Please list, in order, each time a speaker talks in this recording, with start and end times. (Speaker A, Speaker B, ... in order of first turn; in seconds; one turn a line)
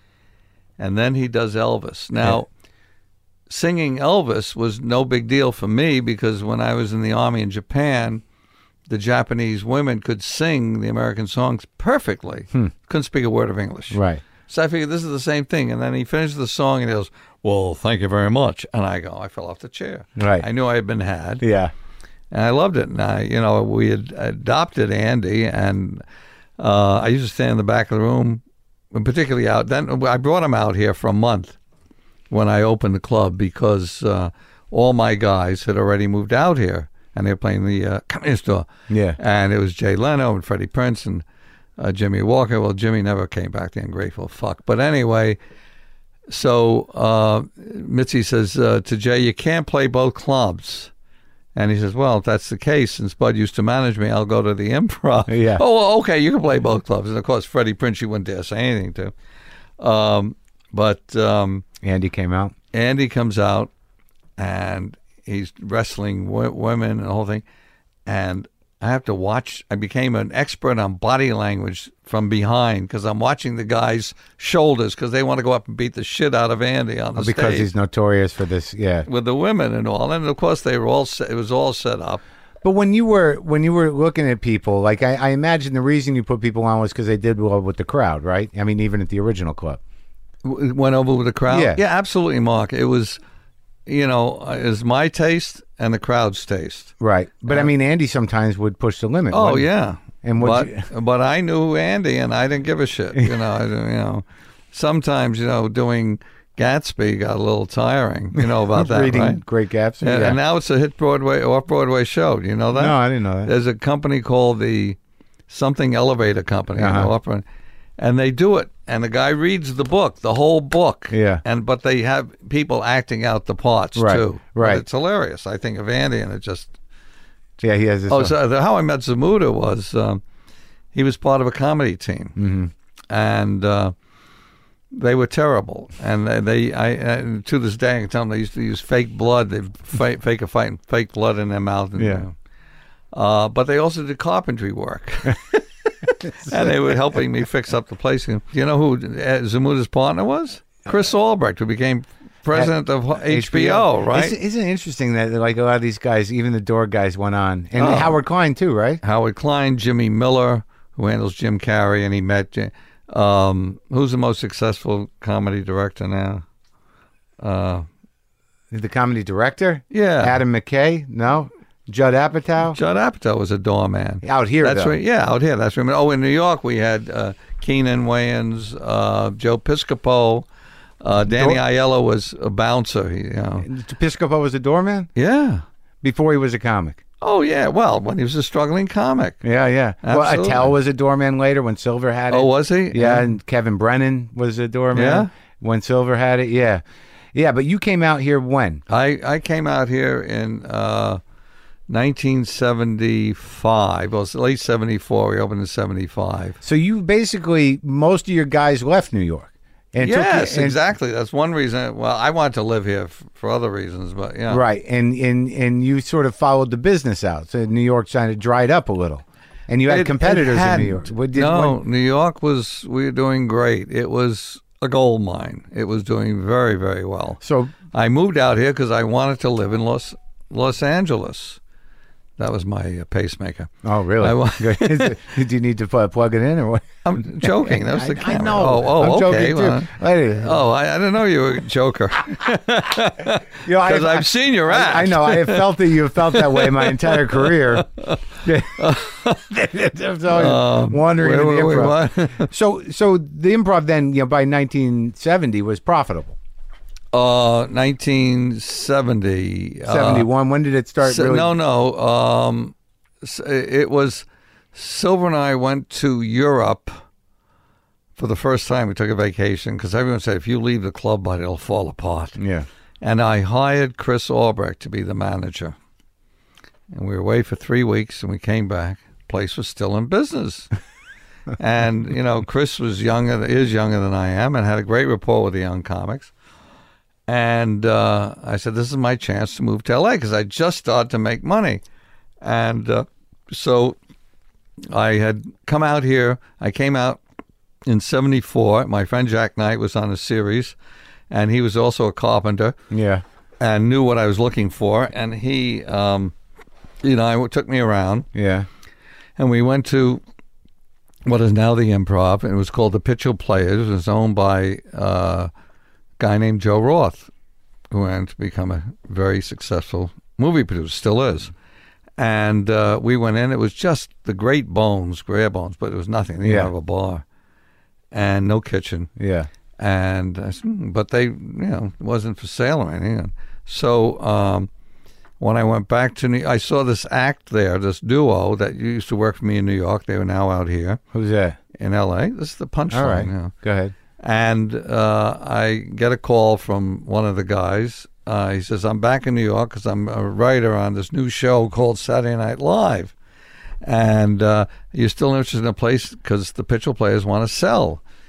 Speaker A: 0.8-2.5
Speaker A: 3.5-8.2
Speaker A: 8.9-21.4
Speaker B: 13.9-14.2
Speaker B: 20.2-20.5
Speaker B: 21.4-21.7
Speaker A: 22.3-26.0
Speaker A: 26.6-31.6
Speaker A: 32.3-41.2
Speaker B: 38.9-39.2
Speaker A: 41.8-45.4
Speaker A: 46.3-50.9
Speaker A: 51.5-59.1
Speaker B: 55.3-55.6
Speaker A: 59.8-61.6
Speaker B: 61.8-62.5
Speaker A: 62.7-63.7
Speaker A: 64.4-67.4
Speaker A: 68.1-77.7
Speaker B: 77.2-79.1
Speaker A: 79.1-82.2
Speaker B: 82.6-89.8
Speaker A: 90.4-93.2
Speaker B: 91.5-91.8
Speaker A: 93.9-96.9
Speaker B: 97.0-99.7
Speaker A: 99.3-109.4
Speaker B: 100.2-100.9
Speaker B: 108.4-110.4
Speaker A: 110.0-115.0
Speaker B: 112.7-113.5
Speaker A: 115.5-117.5
Speaker B: 116.8-117.1
Speaker A: 118.0-126.8
Speaker B: 121.1-121.4
Speaker B: 124.0-124.8
Speaker B: 127.6-128.3
Speaker A: 128.1-130.2
Speaker A: 130.9-132.4
Speaker B: 132.4-132.7
Speaker A: 133.1-133.9
Speaker A: 134.9-142.3
Speaker B: 142.0-142.2
Speaker A: 143.1-154.3
Speaker B: 146.4-146.8
Speaker B: 152.5-159.0
Speaker A: 157.8-158.2
Speaker A: 159.0-166.4
Speaker A: 167.4-167.9
Speaker B: 168.7-172.8
Speaker A: 169.9-170.4
Speaker A: 172.7-180.5
Speaker B: 174.2-175.0
Speaker A: 181.0-183.7
Speaker B: 181.3-181.6
Speaker B: 183.6-185.1
Speaker A: 185.2-185.6
Speaker B: 186.0-187.0
Speaker A: 187.2-189.4
Speaker B: 189.4-196.8
Speaker A: 190.0-190.7
Speaker A: 192.3-193.3
Speaker A: 194.9-195.3
Speaker B: 197.3-198.8
Speaker A: 198.9-201.2
Speaker A: 201.9-206.6
Speaker B: 206.6-210.8
Speaker A: 210.0-214.6
Speaker B: 214.5-221.8
Speaker A: 219.9-231.6
Speaker B: 227.4-227.7
Speaker A: 232.4-235.2
Speaker B: 233.8-240.6
Speaker A: 237.1-249.4
Speaker B: 243.7-247.9
Speaker B: 248.4-256.4
Speaker A: 250.3-252.5
Speaker A: 257.1-260.3
Speaker B: 259.9-261.5
Speaker A: 261.0-267.0
Speaker A: 268.2-272.4
Speaker B: 272.4-272.7
Speaker A: 273.0-275.8
Speaker A: 276.9-280.7
Speaker A: 281.6-286.3
Speaker A: 287.3-291.8
Speaker A: 292.4-294.0
Speaker A: 294.9-297.2
Speaker A: 297.9-300.8
Speaker A: 301.3-302.8
Speaker B: 302.9-303.2
Speaker A: 303.6-306.3
Speaker A: 307.0-308.3
Speaker B: 308.3-308.7
Speaker A: 309.4-310.2
Speaker A: 311.3-315.5
Speaker A: 316.2-317.3
Speaker A: 317.9-321.5
Speaker A: 322.2-327.2
Speaker B: 326.4-326.7
Speaker A: 328.1-329.1
Speaker B: 329.2-329.5
Speaker A: 329.8-334.7
Speaker A: 335.4-341.0
Speaker B: 341.1-341.6
Speaker A: 341.8-343.5
Speaker B: 342.9-343.9
Speaker A: 344.2-353.1
Speaker A: 353.8-358.0